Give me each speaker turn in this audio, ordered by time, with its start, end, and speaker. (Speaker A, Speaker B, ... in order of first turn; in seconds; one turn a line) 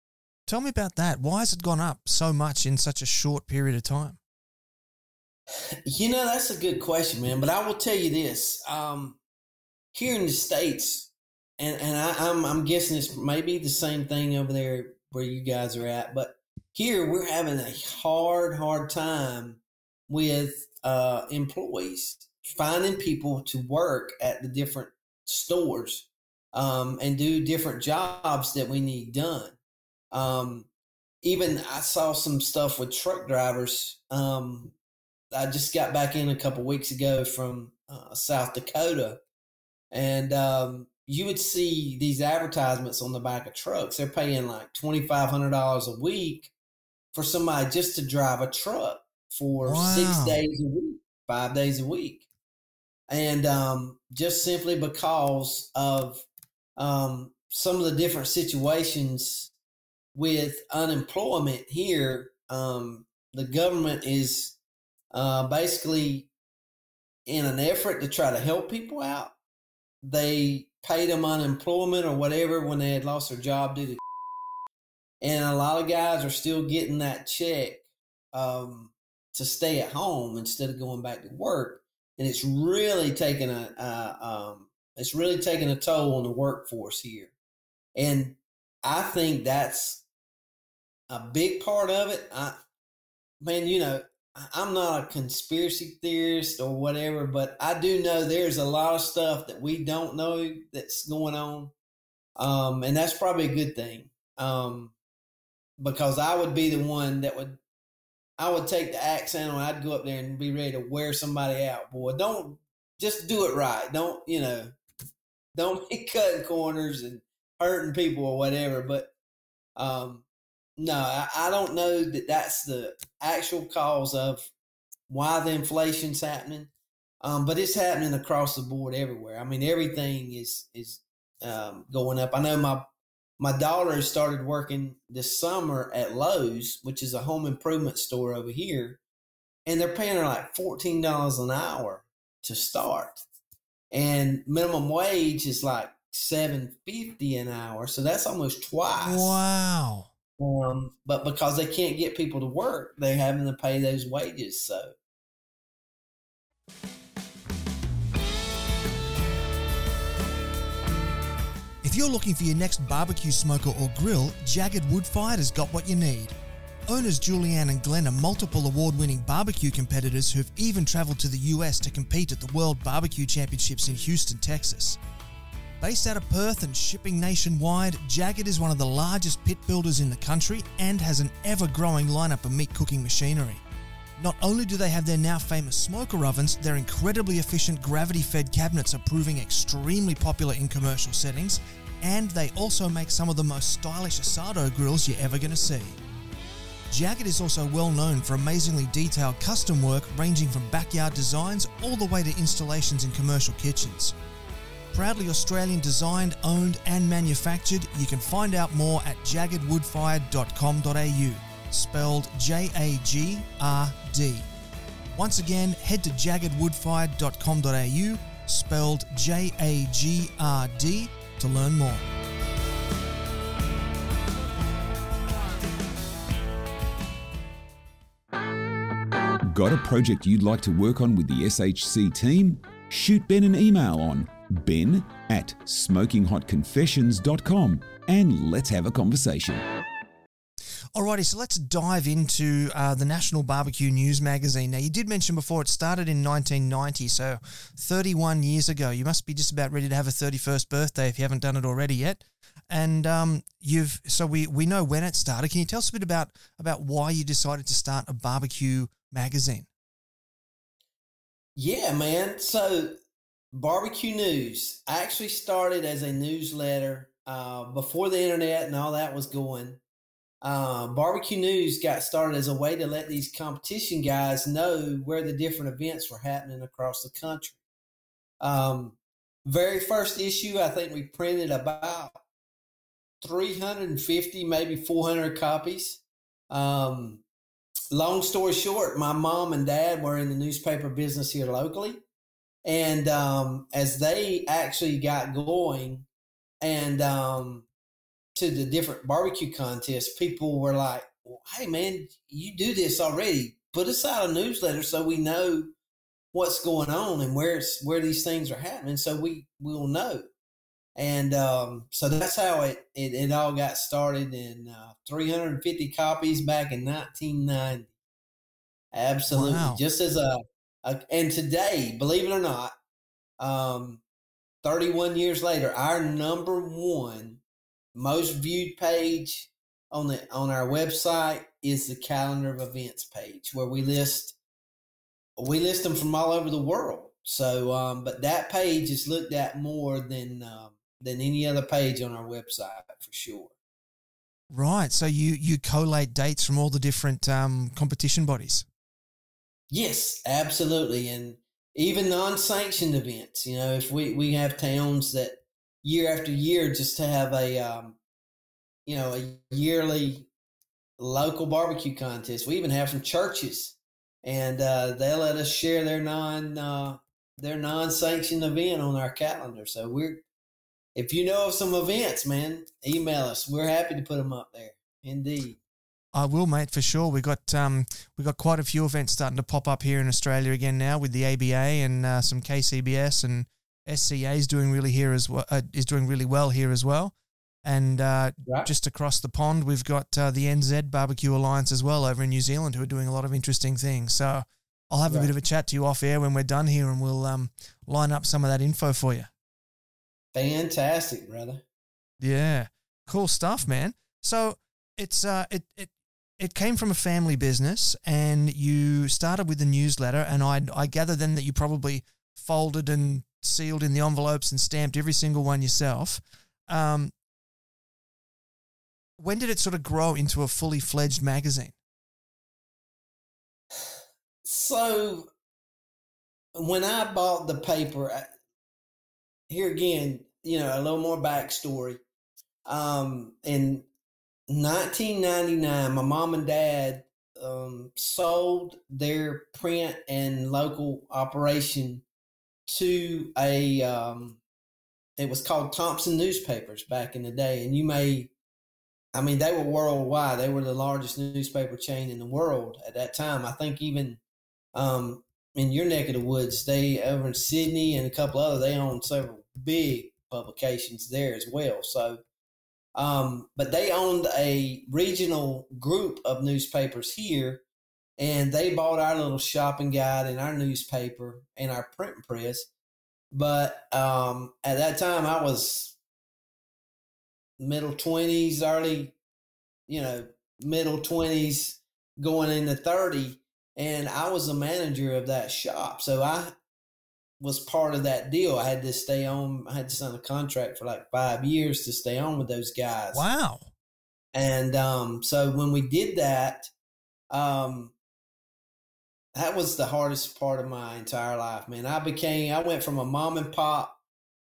Speaker A: 0.5-4.2
Speaker B: 5.9-9.2
Speaker B: 9.9-29.6
Speaker B: 30.1-30.7
Speaker B: 31.2-34.8
Speaker B: 35.3-39.2
Speaker B: 39.9-46.5
Speaker B: 47.1-52.3
Speaker A: 49.6-50.4
Speaker B: 53.1-56.3
Speaker B: 56.8-59.5
Speaker B: 60.1-64.6
Speaker B: 65.1-66.3
Speaker B: 67.3-69.3
Speaker B: 70.0-74.0
Speaker B: 75.2-87.3
Speaker B: 88.0-90.0
Speaker B: 91.1-92.6
Speaker B: 93.4-101.7
Speaker B: 102.4-105.0
Speaker B: 105.8-107.6
Speaker B: 108.4-114.7
Speaker B: 115.5-119.1
Speaker B: 119.8-120.3
Speaker B: 120.8-124.5
Speaker B: 125.1-132.9
Speaker B: 133.4-139.0
Speaker B: 139.7-143.2
Speaker B: 143.9-149.4
Speaker A: 149.0-150.1
Speaker B: 150.4-154.9
Speaker A: 161.8-166.3
Speaker A: 166.9-175.0
Speaker A: 175.8-183.6
Speaker A: 184.2-196.0
Speaker A: 196.9-204.2
Speaker A: 204.9-214.5
Speaker A: 215.2-222.0
Speaker C: 229.5-239.6
Speaker A: 240.9-259.7
Speaker B: 261.6-262.9
Speaker B: 263.5-269.8
Speaker B: 270.4-277.6
Speaker B: 278.4-282.2
Speaker B: 283.2-287.2
Speaker B: 287.9-292.0
Speaker B: 292.6-296.1
Speaker B: 296.6-297.7
Speaker B: 298.4-305.7
Speaker B: 306.3-310.3
Speaker B: 311.0-317.9
Speaker B: 318.9-322.8
Speaker A: 319.3-319.8
Speaker B: 323.4-324.0
Speaker B: 324.6-327.4
Speaker B: 327.9-334.4
Speaker B: 335.4-343.5
Speaker A: 344.5-348.7
Speaker B: 349.7-358.0
Speaker B: 358.9-360.3
Speaker B: 361.0-370.2
Speaker B: 370.9-375.6
Speaker A: 376.1-387.1
Speaker A: 387.6-399.3
Speaker B: 388.4-388.7
Speaker B: 395.1-395.3
Speaker B: 400.3-401.6
Speaker A: 402.2-417.1
Speaker A: 419.2-421.8
Speaker B: 423.8-425.3
Speaker B: 426.6-428.3
Speaker B: 429.5-432.0
Speaker B: 432.7-433.9
Speaker B: 434.5-442.1
Speaker B: 442.7-444.4
Speaker B: 445.2-448.3
Speaker B: 449.1-454.2
Speaker B: 454.8-462.2
Speaker B: 463.0-467.6
Speaker B: 468.2-472.7
Speaker B: 473.3-476.0
Speaker B: 477.6-479.2
Speaker B: 479.9-486.6
Speaker B: 487.4-493.2
Speaker A: 493.1-493.7
Speaker B: 494.3-496.7
Speaker B: 497.3-497.9
Speaker B: 499.4-504.0